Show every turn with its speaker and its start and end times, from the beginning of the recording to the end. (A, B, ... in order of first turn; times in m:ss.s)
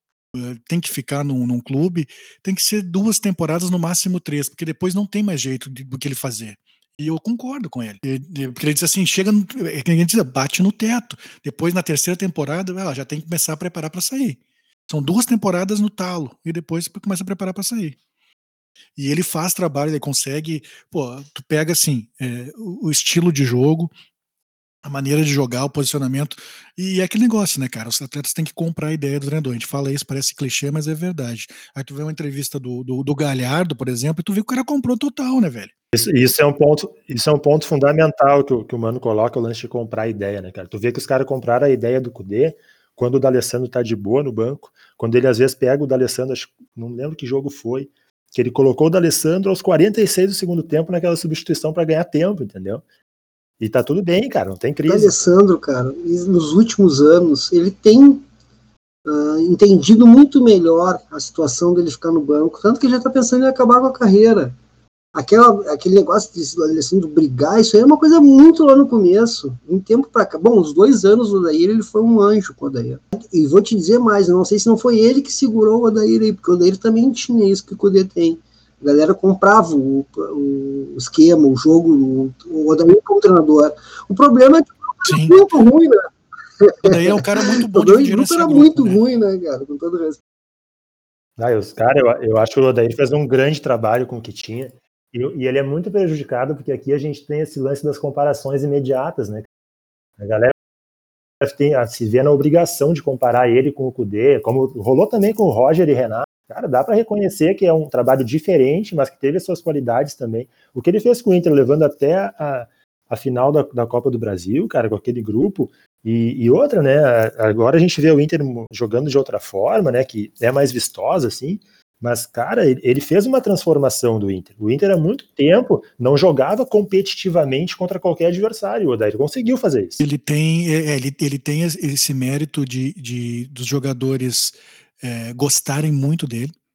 0:00.3-0:18.0 A
0:19.0-0:23.9 A
0:24.8-0:35.7 A
0:35.9-0:52.8 B
0:53.6-0:55.2 B
0:54.9-0:58.2 C
0:59.1-1:04.6 C
1:05.1-1:26.0 C
1:25.1-1:25.5 A
1:26.6-1:30.2 C
1:26.8-1:29.0 A
1:31.4-1:39.5 B
1:40.2-1:40.5 B
1:41.4-2:10.0 B
2:10.0-2:16.5 A